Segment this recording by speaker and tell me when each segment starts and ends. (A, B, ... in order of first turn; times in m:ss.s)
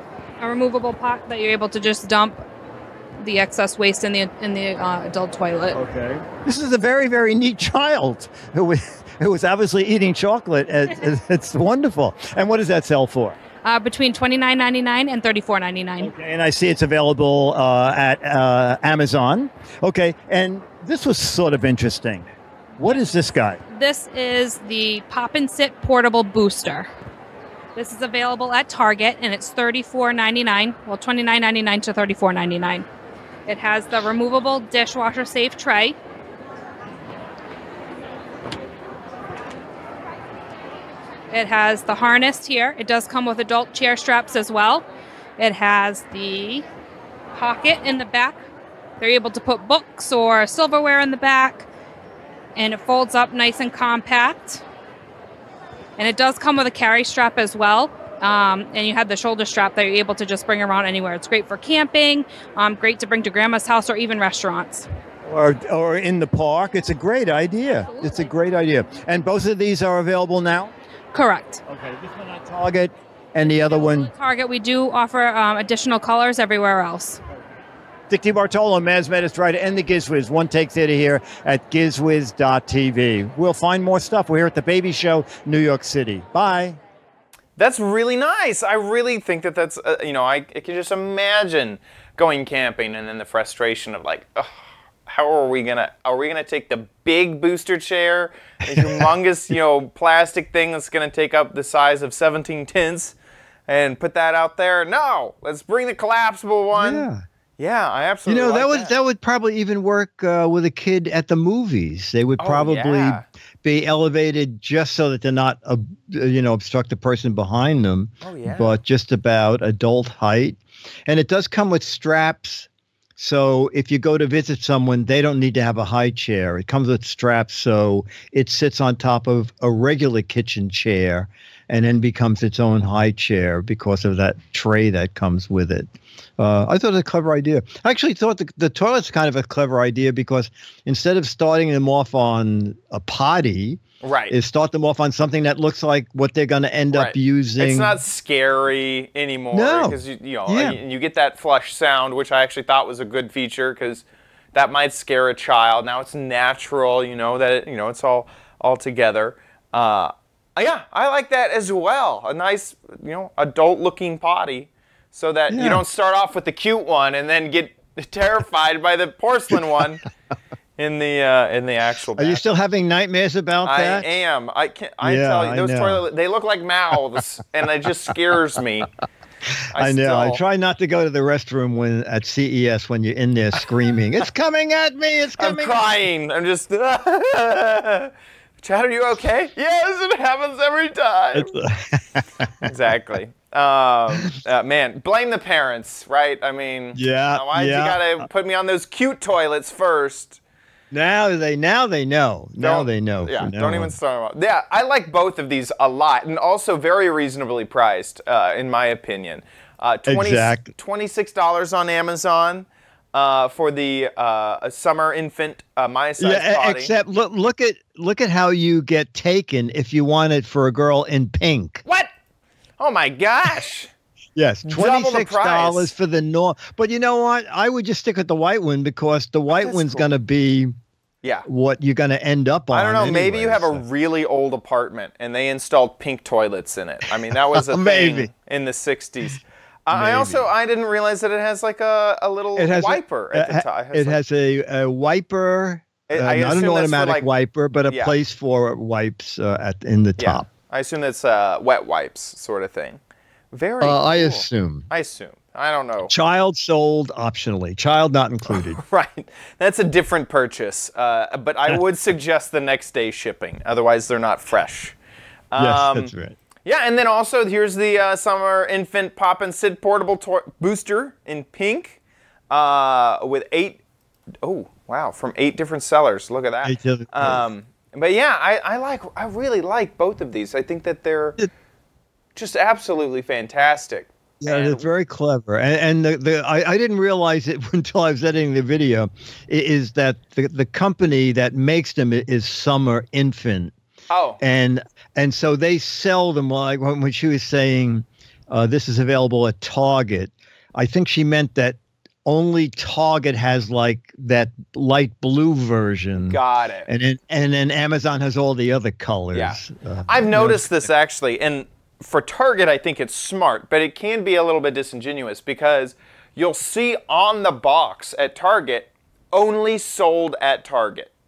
0:00.4-0:02.4 A
0:03.2-0:05.8 A
0:05.8-0:08.2 B
0:08.3-0:13.4 C
0:09.8-0:10.5 B
0:12.2-0:13.1 B
0:13.6-0:16.1 A
0:16.0-0:23.6 B
0:23.7-0:26.9 A
0:27.8-0:32.8 A
0:33.5-0:36.0 A
0:41.3-0:44.8 A
0:45.4-0:46.6 A
0:47.3-0:48.4 A
0:49.0-0:51.7 A
0:52.5-0:54.6 A
0:56.0-1:04.9 A
1:05.2-1:10.7 B
1:07.8-1:08.3 A
1:11.1-1:11.6 A
1:11.7-1:14.1 B
1:13.7-1:17.2 A
1:18.1-1:26.8 B
1:27.6-1:43.1 D
1:38.7-1:39.0 C
1:43.7-1:47.1 D
1:46.7-1:47.2 C
1:47.6-1:48.9 D
1:48.2-2:27.9 C
1:52.4-1:53.2 D
1:58.2-1:58.8 D
2:24.0-2:24.3 D
2:26.9-2:50.0 D
2:29.5-2:30.8 C
2:45.5-2:45.8 C
2:50.8-2:52.4 D
2:52.2-2:54.1 C
2:53.6-2:58.9 D
2:55.0-2:56.0 C
2:59.7-3:00.4 D
2:59.8-3:05.9 C
3:05.4-3:11.5 D
3:11.3-3:12.6 C
3:12.6-3:20.4 D
3:16.9-3:18.2 C
3:20.9-3:23.9 C
3:22.6-3:36.9 D
3:30.1-3:30.7 C
3:36.2-3:41.8 C
3:42.8-3:43.9 D
3:44.4-3:50.7 C
3:44.6-3:45.9 D
3:49.5-3:50.1 D
3:51.4-3:53.8 C
3:52.7-4:04.2 D
3:57.6-3:58.3 C
3:59.9-4:00.5 C
4:02.5-4:10.5 C
4:06.1-4:07.3 D
4:07.9-4:08.1 D
4:10.2-4:13.0 D
4:13.5-4:16.1 D
4:13.8-4:14.9 C
4:16.1-4:18.8 C
4:18.5-4:24.9 D
4:25.5-4:26.1 D
4:25.6-4:26.4 C
4:26.6-4:32.0 D
4:32.5-4:33.8 D
4:34.4-4:41.4 D
4:36.6-4:37.4 C
4:42.4-4:44.8 D
4:44.4-4:53.7 C
4:54.1-4:54.4 D
4:54.4-5:10.9 C
5:06.3-5:06.9 D
5:09.3-5:21.1 D